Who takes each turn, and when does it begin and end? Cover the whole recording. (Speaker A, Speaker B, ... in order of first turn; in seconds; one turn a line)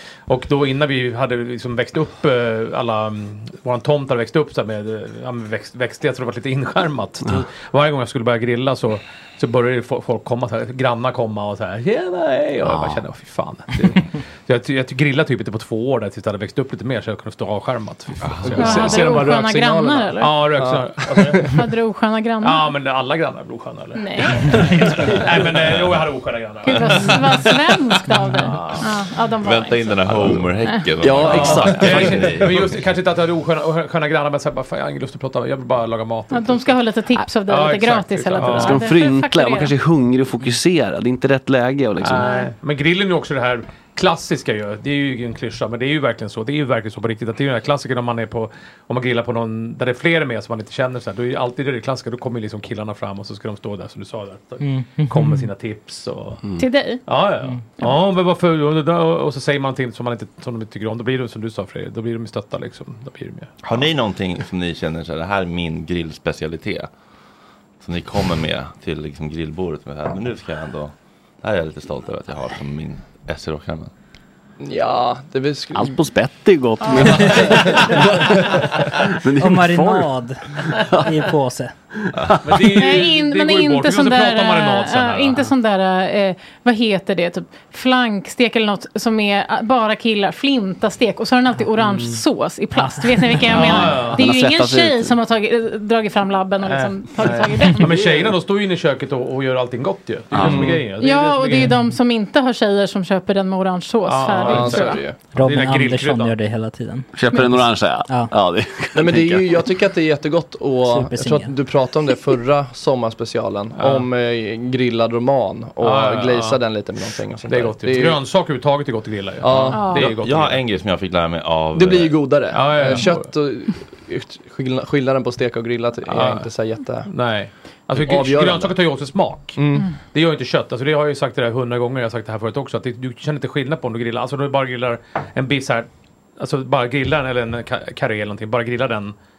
Speaker A: 0.3-19.5
Speaker B: 12.7-13.0
Speaker C: 18.2-18.7
Speaker D: 18.4-21.5
Speaker E: 18.6-20.4
Speaker A: 20.2-21.4
Speaker E: 21.5-22.7
Speaker A: 22.4-27.5
Speaker E: 23.9-24.7
Speaker E: 26.6-30.9
Speaker A: 28.1-28.9
Speaker C: 29.4-32.8
Speaker B: 31.0-32.1
Speaker A: 31.1-36.8
Speaker D: 31.3-31.8
Speaker E: 36.3-39.7
Speaker A: 37.3-38.9
Speaker B: 38.4-42.3
Speaker A: 42.0-56.4
Speaker E: 42.2-42.5
Speaker F: 54.6-55.5
Speaker E: 56.6-57.0
Speaker A: 57.1-63.9
Speaker C: 63.6-66.9
Speaker C: 67.8-73.9
Speaker D: 74.6-76.0
Speaker B: 75.7-80.1
Speaker D: 77.4-77.8
Speaker A: 77.6-77.9
Speaker F: 79.3-81.8
Speaker B: 80.7-81.1
Speaker A: 82.4-85.5
Speaker E: 82.8-98.0
Speaker A: 91.8-92.2
Speaker F: 92.8-93.4
Speaker A: 93.5-94.3
Speaker B: 93.6-95.2
Speaker A: 96.6-101.8
Speaker B: 100.3-100.7
Speaker D: 100.4-100.8
Speaker E: 101.0-105.0
Speaker A: 104.1-106.3
Speaker D: 104.5-105.2
Speaker F: 105.3-108.3
Speaker B: 107.1-109.7
Speaker D: 109.0-118.2
Speaker F: 110.8-111.5
Speaker A: 113.8-114.1
Speaker A: 115.8-116.6
Speaker A: 117.5-120.6
Speaker D: 119.4-120.0
Speaker E: 119.7-120.0
Speaker C: 119.9-122.2
Speaker D: 121.7-127.1
Speaker A: 122.5-123.3
Speaker A: 126.1-126.5
Speaker A: 127.1-139.2
Speaker D: 128.0-128.8
Speaker D: 129.6-129.9